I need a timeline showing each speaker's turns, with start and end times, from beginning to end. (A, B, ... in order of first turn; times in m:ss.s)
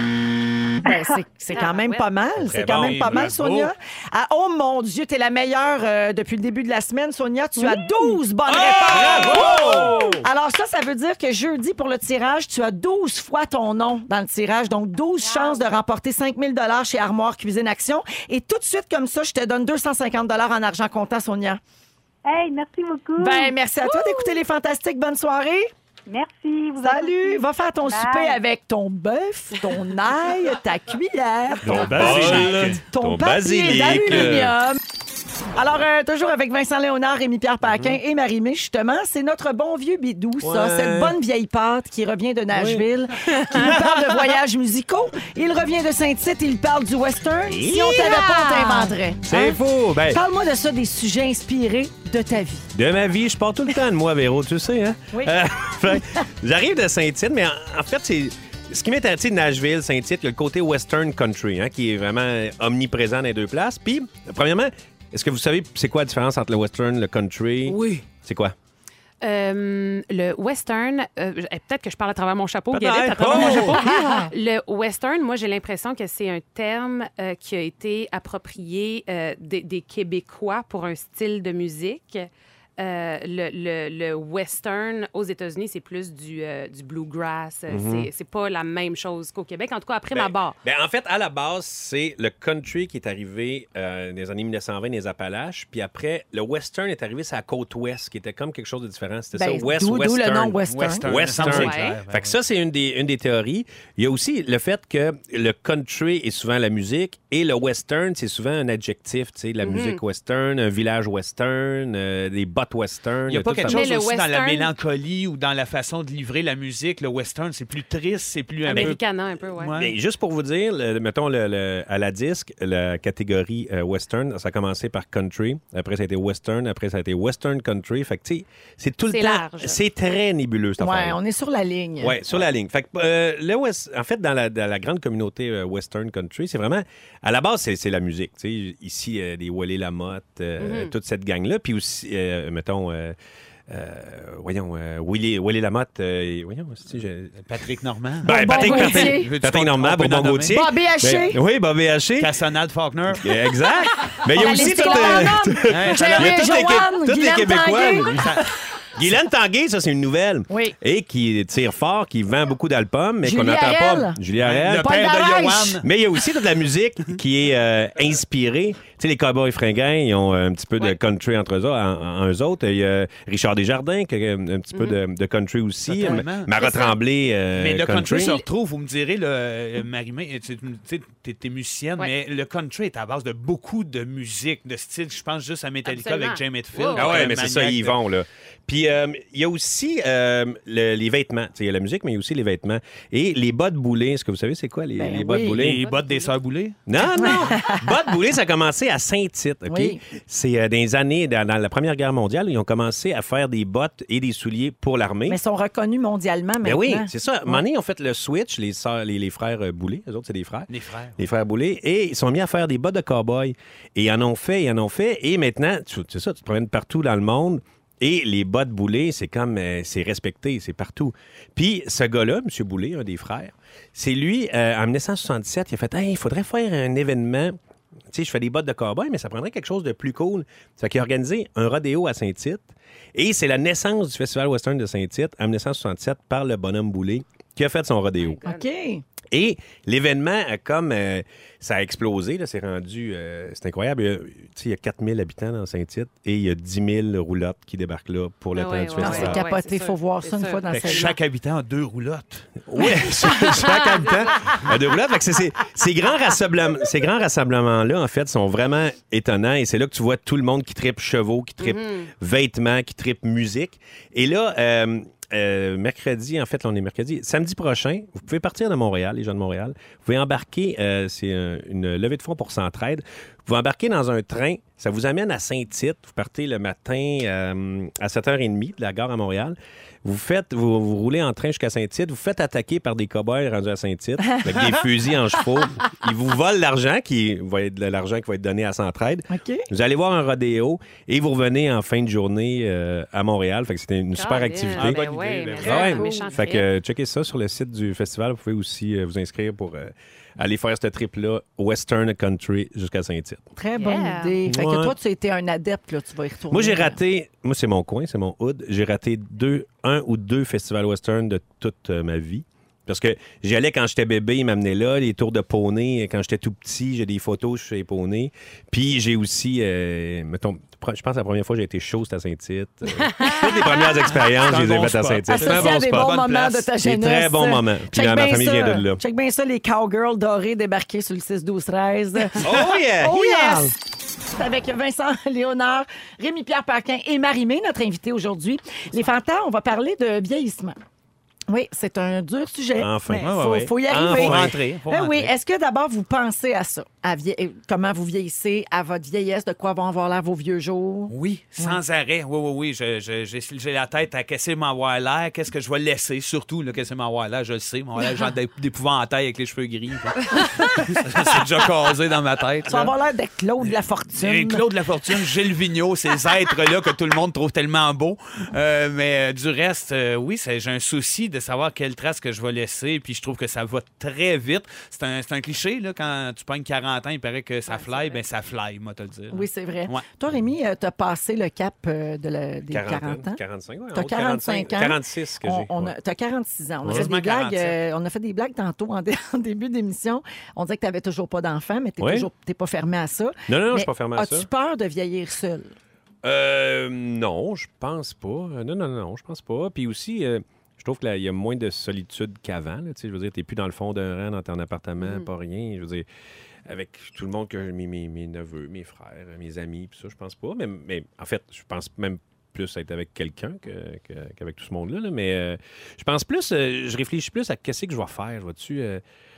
0:00.8-0:21.6 A
0:00.9-0:01.2 B
0:01.5-0:02.1 C
0:02.4-0:03.7 D
0:02.7-0:03.5 E
0:07.6-0:08.2 B
0:08.5-0:10.2 D
0:08.7-0:09.9 E
0:15.2-0:15.8 B
0:22.2-0:24.2 B
0:23.2-0:25.7 A
0:26.1-0:28.4 B
0:26.8-0:34.8 A
0:31.6-0:34.6 D
0:31.9-0:32.8 E
0:35.6-0:52.7 A
0:37.7-0:38.0 D
0:40.4-0:41.2 D
0:42.5-0:42.9 D
0:43.4-0:43.9 D
0:47.5-0:48.2 D
0:48.1-0:48.8 C
0:49.3-0:50.2 D
0:52.7-1:08.6 D
0:55.1-0:56.0 A
1:09.2-1:30.6 C
1:12.7-1:13.8 D
1:13.3-1:14.3 A
1:27.7-1:28.1 D
1:30.1-1:53.8 D
1:39.3-1:41.5 A
1:40.7-1:42.4 E
1:41.5-1:42.0 C
1:49.6-1:50.0 C
1:53.3-1:59.0 E
1:53.7-1:54.7 C
1:58.6-1:59.7 C
1:59.6-1:59.9 E
1:59.8-2:11.2 D
2:09.1-2:09.8 C
2:10.8-2:12.2 A
2:12.0-2:23.2 D
2:20.6-2:20.9 C
2:23.7-2:27.4 D
2:27.4-2:30.6 E
2:28.2-2:32.3 D
2:28.3-2:29.3 A
2:30.5-2:31.4 A
2:32.2-2:33.3 E
2:33.1-2:38.4 D
2:34.2-2:38.2 A
2:34.4-2:35.1 C
2:35.7-2:36.6 E
2:38.1-2:38.5 E
2:38.9-2:45.0 D
2:40.5-2:40.8 A
2:43.2-2:44.2 A
2:44.4-2:45.9 E
2:44.7-2:45.8 A
2:45.8-2:58.4 D
2:55.9-2:56.5 E
2:56.6-2:57.0 C
2:57.5-3:08.0 E
3:05.8-3:07.4 C
3:06.9-3:15.8 D
3:15.0-3:15.7 A
3:15.5-3:16.8 E
3:15.8-3:16.3 C
3:16.9-3:25.4 D
3:17.2-3:17.9 A
3:19.7-3:20.0 A
3:25.3-3:27.6 A
3:26.6-3:47.6 D
3:30.7-3:31.2 E
3:48.1-3:58.4 D
3:58.2-3:58.7 C
3:58.4-3:59.0 A
3:59.3-4:09.4 D
4:08.6-4:11.1 C
4:09.0-4:11.1 A
4:10.7-4:12.5 E
4:12.7-5:03.5 D
4:13.2-4:14.6 C
4:21.6-4:22.1 C
4:44.3-4:44.6 A
4:49.3-4:49.7 A
4:54.1-4:56.7 C
4:54.8-4:55.9 E
4:55.9-4:56.3 A
5:03.6-5:07.0 A
5:03.8-5:04.4 C
5:04.4-5:05.0 D
5:06.5-5:26.2 D
5:23.2-5:23.9 C
5:24.4-5:26.7 E
5:25.3-5:33.7 A
5:26.8-5:29.0 D
5:32.4-5:33.7 D
5:34.3-5:40.8 A
5:41.5-5:51.8 A
5:42.8-5:44.6 D
5:43.2-5:45.3 E
5:51.1-6:02.9 E
6:02.7-6:04.6 A
6:03.6-6:20.0 E
6:17.7-6:18.2 C
6:19.3-6:23.4 A
6:22.7-6:26.0 D
6:23.9-6:35.7 A
6:26.8-6:27.1 D
6:26.9-6:27.8 E
6:32.0-6:32.3 D
6:33.5-6:34.5 D
6:36.2-6:46.1 D
6:45.0-6:45.3 C
6:46.7-6:59.0 D